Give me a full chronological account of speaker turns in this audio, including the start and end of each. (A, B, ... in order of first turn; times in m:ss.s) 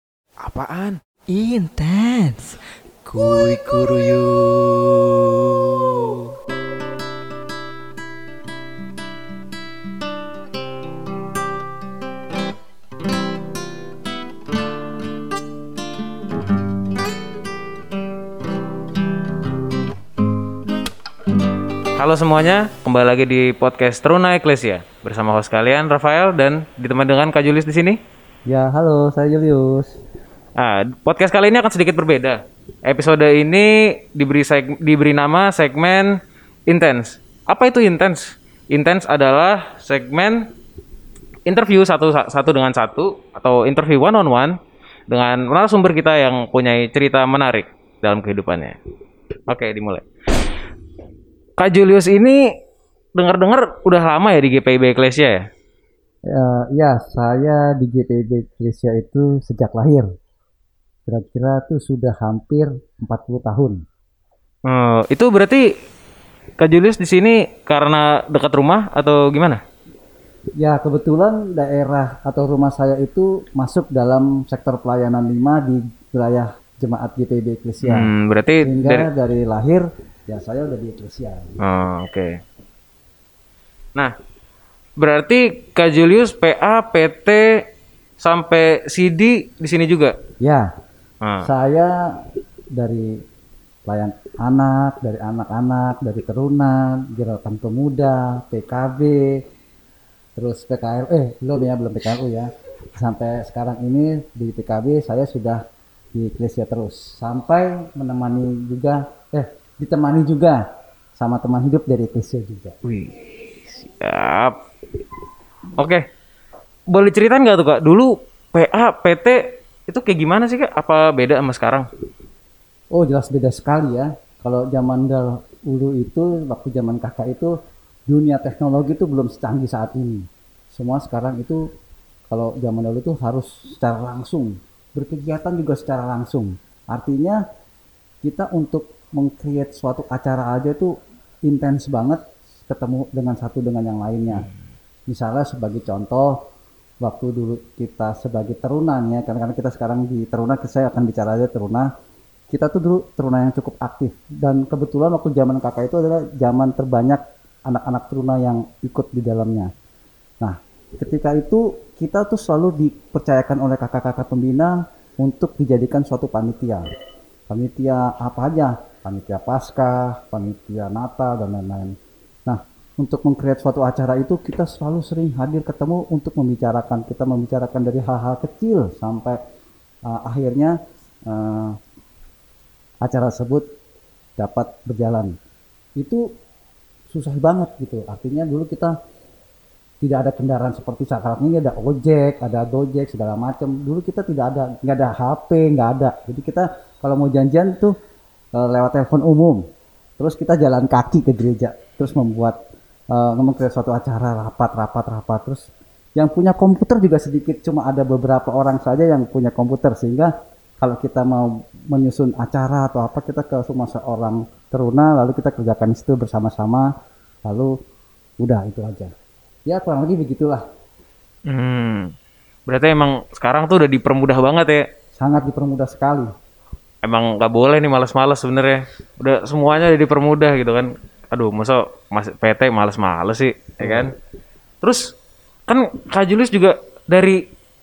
0:00.4-0:06.3 A
0:22.0-0:28.0 B
0:28.5-0:30.0 C
0:30.6-0:40.5 B
0:41.4-0:44.6 B
0:45.1-0:48.8 B
0:49.5-0:50.0 B
0:51.6-0:52.4 B
0:53.2-0:55.4 B
0:56.3-1:00.1 C
1:01.1-1:03.8 C
1:04.7-1:05.6 B
1:06.6-1:09.6 B
1:10.6-1:18.1 C
1:17.8-1:19.1 B
1:18.6-1:21.6 C
1:21.6-1:22.4 B
1:25.0-1:27.6 B
1:28.2-1:30.2 B
1:30.4-1:30.7 C
1:31.2-1:31.5 B
1:31.4-1:32.2 C
1:32.8-1:33.2 C
1:33.9-1:39.4 C
1:40.4-1:45.6 C
1:46.1-1:50.6 C
1:51.2-1:52.7 C
1:52.8-1:54.6 B
1:55.8-1:56.0 B
1:56.9-2:01.9 B
2:02.9-2:07.5 C
2:08.1-2:11.6 C
2:12.3-2:17.4 C
2:18.2-2:20.9 C
2:21.5-2:24.4 C
2:25.1-2:26.4 C
2:27.0-2:31.9 C
2:32.5-2:39.7 C
2:40.4-2:46.9 C
2:47.5-2:51.9 C
2:52.5-2:59.4 C
3:00.1-3:00.8 C
3:01.3-3:01.8 C
3:03.0-3:03.6 C
3:04.4-3:05.3 C
3:06.0-3:06.2 C
3:07.1-3:08.9 C
3:10.0-3:17.9 C
3:18.6-3:19.6 C
3:20.2-3:22.6 C
3:23.1-3:36.9 C
3:37.4-3:37.7 C
3:38.4-3:39.1 C
3:39.7-3:40.6 C
3:41.5-3:42.1 B
3:42.7-3:44.8 B
3:45.2-3:46.3 C
3:47.0-3:54.1 B
3:53.8-3:54.1 C
3:55.7-3:57.4 B